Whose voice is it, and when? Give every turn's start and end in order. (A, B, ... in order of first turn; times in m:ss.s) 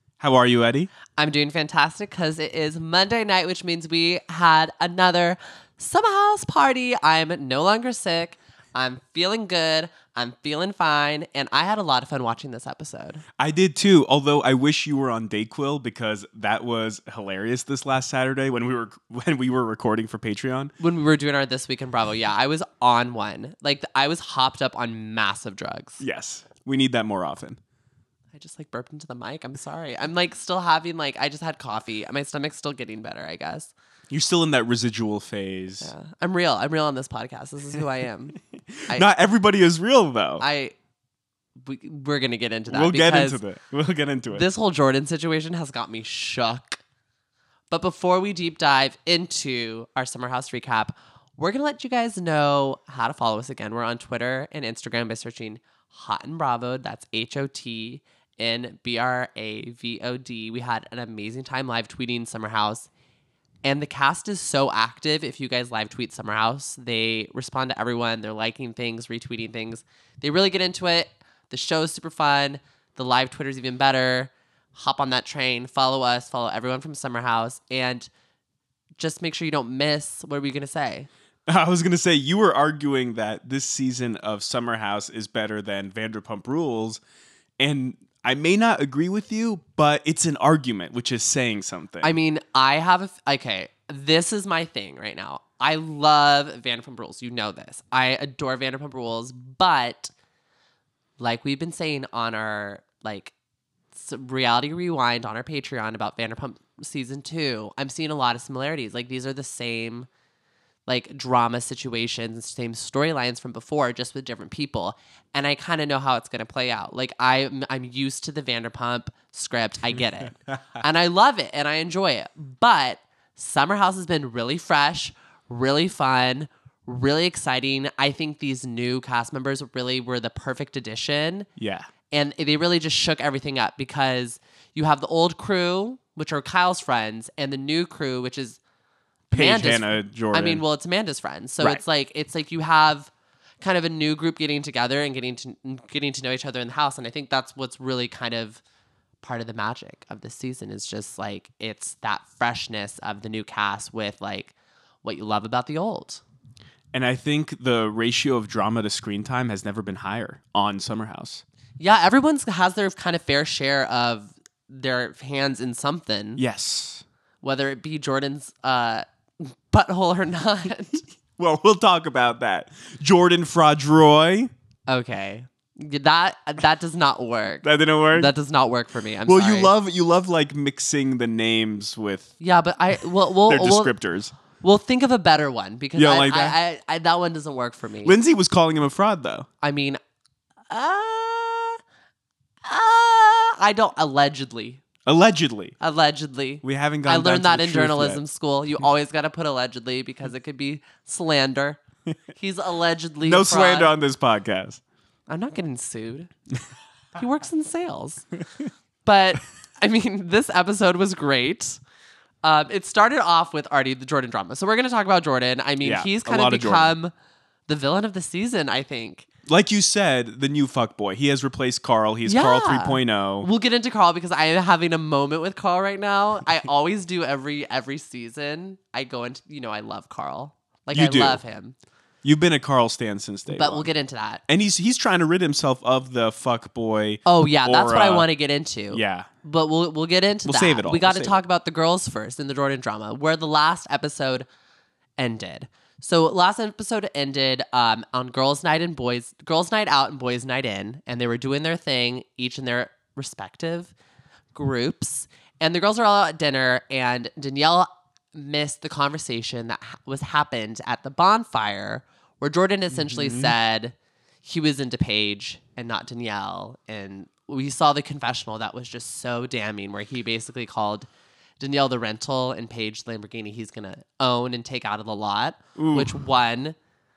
0:00.2-0:00.9 A
0:01.2-0:13.2 B
0:13.4-0:20.7 A
0:20.8-0:26.0 B
0:26.0-0:27.6 A
0:28.3-0:33.7 B
0:34.1-0:35.9 A
0:35.8-0:39.0 B
0:38.8-0:40.4 A
0:40.4-0:40.7 B
0:41.6-0:43.4 B
0:42.7-0:44.4 A
0:44.3-0:46.8 B
0:47.7-1:02.9 B
1:03.6-1:18.1 B
1:19.0-1:21.1 B
1:21.5-1:27.0 A
1:27.6-1:32.1 A
1:32.0-1:40.1 B
1:41.2-1:43.3 B
1:43.9-1:50.1 B
1:50.9-2:11.5 B
2:11.6-2:11.9 A
2:12.1-2:18.6 B
2:19.3-2:28.6 B
2:19.3-2:20.6 A
2:29.2-2:36.2 B
2:36.9-2:41.4 A
2:41.8-2:46.4 B
2:46.4-2:47.0 A
2:47.4-2:51.0 B
2:51.4-2:54.5 A
2:54.9-2:59.7 B
2:57.6-2:58.3 A
2:59.2-3:02.3 A
3:02.4-3:03.9 B
3:03.5-3:04.3 A
3:04.6-3:08.2 B
3:06.0-3:06.6 A
3:08.0-3:09.5 A
3:09.6-3:10.0 B
3:10.7-3:11.8 B
3:12.6-3:14.8 B
3:15.0-3:15.8 A
3:15.8-3:21.8 B
3:16.6-3:18.2 A
3:22.3-3:23.9 B
3:23.2-3:24.8 A
3:25.3-3:26.3 B
3:27.1-3:28.3 B
3:29.0-3:31.8 B
3:32.4-3:37.1 B
3:35.8-3:36.9 A
3:37.7-3:39.3 B
3:39.5-3:43.5 A
3:42.2-3:51.8 B
3:50.9-3:51.4 A
3:52.2-3:53.9 A
3:53.5-3:54.4 B
3:54.5-3:58.3 A
3:57.2-4:04.5 B
3:58.9-3:59.3 A
4:00.4-4:01.4 A
4:05.2-4:13.9 B
4:14.5-4:31.1 B
4:22.9-4:23.5 A
4:31.6-4:36.8 B
4:35.8-4:36.2 A